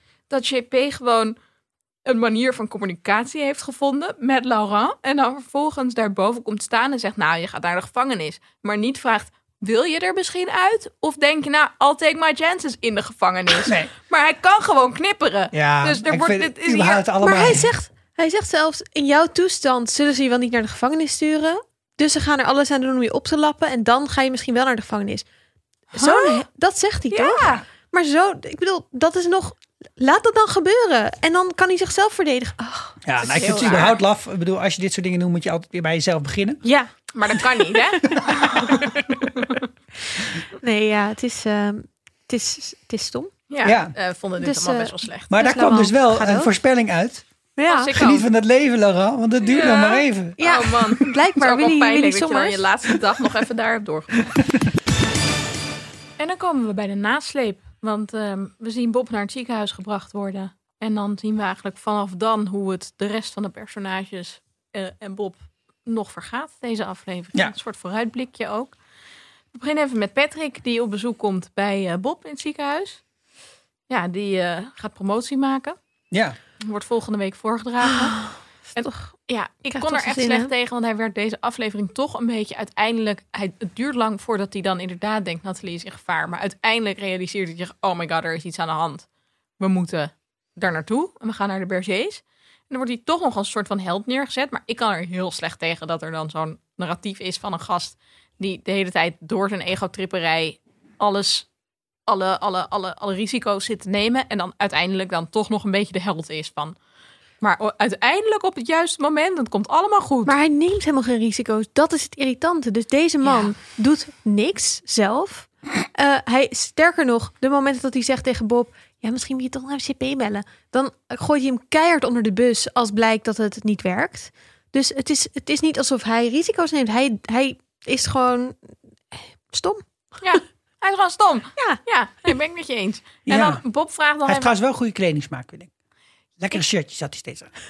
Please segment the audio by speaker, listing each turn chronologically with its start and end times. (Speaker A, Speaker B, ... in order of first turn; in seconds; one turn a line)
Speaker A: 0.3-1.4
Speaker A: 2.1-17.1
Speaker B: 13.7-13.9
Speaker B: 15.5-17.7
Speaker C: 17.2-25.2
Speaker C: 25.9-33.7
Speaker A: 26.0-26.4
Speaker A: 27.1-27.6
Speaker B: 33.0-36.6
Speaker A: 33.2-34.0
Speaker C: 36.6-39.0
Speaker A: 37.1-39.6
Speaker B: 38.1-39.0
Speaker C: 40.3-43.3
Speaker A: 43.5-45.3
Speaker B: 43.6-43.9
Speaker C: 44.4-46.5
Speaker B: 45.3-47.2
Speaker C: 47.6-47.9
Speaker A: 47.7-48.3
Speaker B: 47.9-50.4
Speaker A: 49.4-54.3
Speaker C: 50.4-52.6
Speaker B: 54.3-54.6
Speaker A: 56.2-68.8
Speaker A: 69.5-73.0
Speaker A: 73.9-75.8
Speaker B: 76.1-76.4
Speaker A: 76.6-89.0
Speaker C: 77.9-79.1
Speaker C: 79.7-80.5
Speaker A: 89.6-101.5
Speaker A: 102.1-106.8
Speaker A: 107.4-110.3
Speaker C: 110.3-128.6
Speaker A: 113.2-113.5
Speaker C: 129.1-129.8
Speaker A: 130.2-134.5
Speaker B: 133.3-133.6
Speaker B: 134.3-135.7
Speaker B: 136.4-137.5